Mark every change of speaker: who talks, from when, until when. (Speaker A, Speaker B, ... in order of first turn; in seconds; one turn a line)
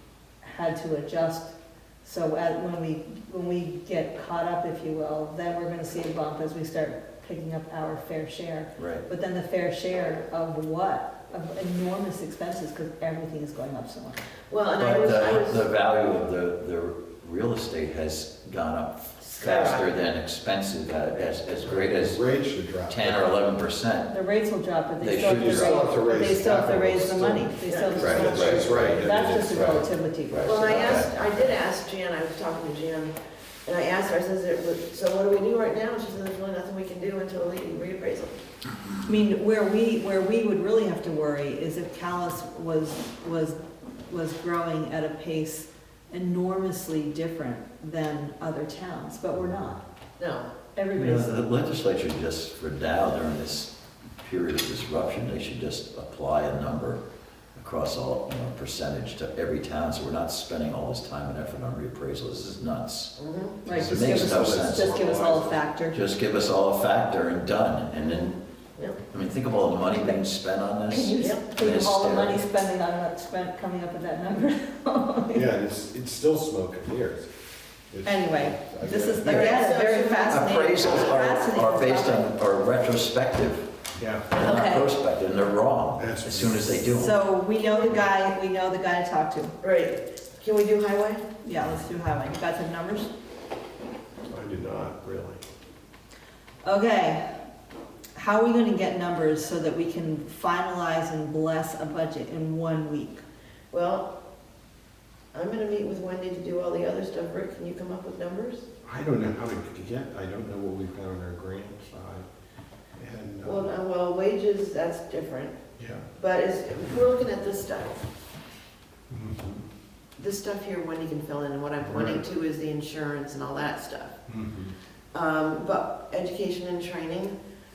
Speaker A: 0.4-14.2
Speaker B: 8.8-9.1
Speaker C: 14.5-15.7
Speaker B: 14.8-22.2
Speaker C: 19.4-19.9
Speaker C: 21.1-21.4
Speaker D: 21.6-23.3
Speaker B: 22.9-24.1
Speaker A: 24.1-31.0
Speaker B: 25.0-26.2
Speaker D: 25.3-29.9
Speaker C: 27.7-28.6
Speaker B: 27.9-31.1
Speaker C: 30.4-33.1
Speaker C: 33.6-38.4
Speaker A: 39.0-49.8
Speaker C: 50.2-50.5
Speaker A: 50.8-51.4
Speaker B: 50.9-57.0
Speaker B: 57.6-65.0
Speaker C: 63.2-63.6
Speaker A: 63.6-66.0
Speaker D: 63.7-65.6
Speaker B: 65.9-68.4
Speaker C: 68.0-69.0
Speaker B: 69.1-72.4
Speaker A: 69.9-70.2
Speaker A: 70.9-75.5
Speaker C: 71.2-71.4
Speaker D: 75.3-77.3
Speaker D: 77.9-79.5
Speaker A: 78.0-82.3
Speaker C: 79.2-80.5
Speaker B: 80.3-83.7
Speaker D: 84.0-84.2
Speaker B: 84.3-87.2
Speaker A: 84.3-84.9
Speaker D: 86.0-86.8
Speaker A: 86.9-89.5
Speaker C: 89.6-91.2
Speaker A: 91.4-93.1
Speaker D: 94.3-95.4
Speaker A: 96.6-97.3
Speaker A: 98.1-103.2
Speaker C: 103.7-104.1
Speaker C: 105.3-108.7
Speaker D: 108.8-112.3
Speaker D: 113.0-113.7
Speaker C: 113.4-115.6
Speaker D: 115.8-116.1
Speaker C: 116.2-118.1
Speaker D: 119.1-119.6
Speaker C: 120.2-124.2
Speaker D: 121.8-122.2
Speaker D: 124.3-124.7
Speaker C: 125.1-127.4